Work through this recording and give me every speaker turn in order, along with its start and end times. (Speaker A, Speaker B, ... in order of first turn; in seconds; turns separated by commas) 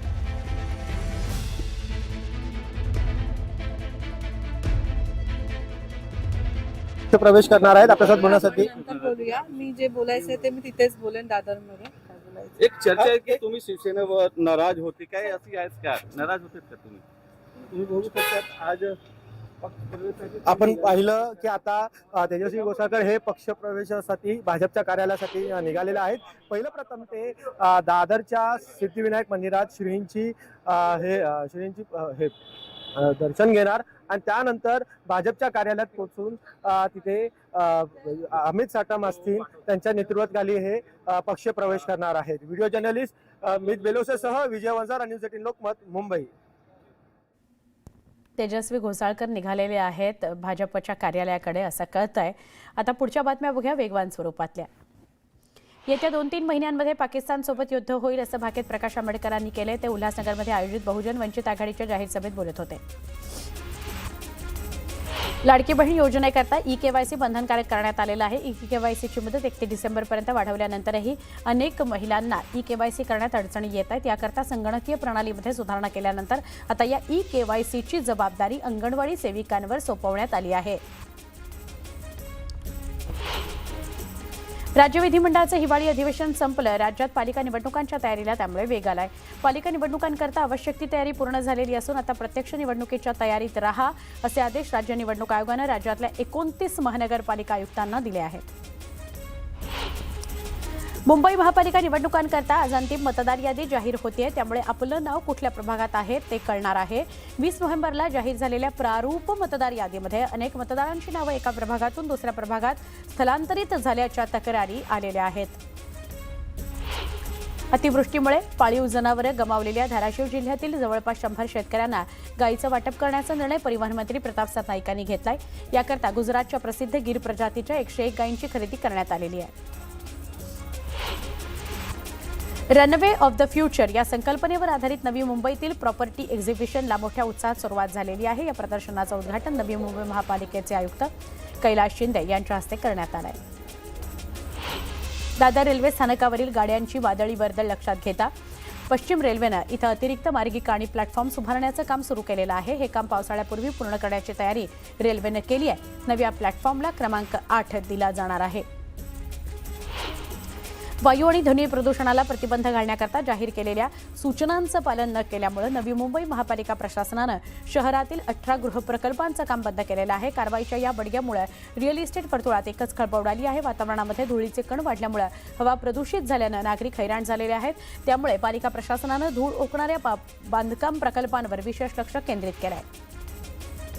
Speaker A: 7.1-8.7, Speaker B: 7.9-9.4, Speaker C: 8.1-12.6, Speaker B: 12.6-17.0, Speaker A: 13.0-13.4, Speaker B: 17.7-18.9, Speaker B: 19.6-20.7, Speaker A: 20.4-32.3, Speaker A: 32.9-46.3, Speaker D: 48.4-54.7, Speaker D: 55.9-62.8, Speaker D: 65.4-80.8, Speaker D: 84.7-98.5, Speaker D: 101.0-115.6, Speaker D: 117.7-129.5, Speaker D: 132.7-143.4, Speaker D: 145.4-148.3, Speaker D: 148.9-158.7, Speaker D: 161.0-182.8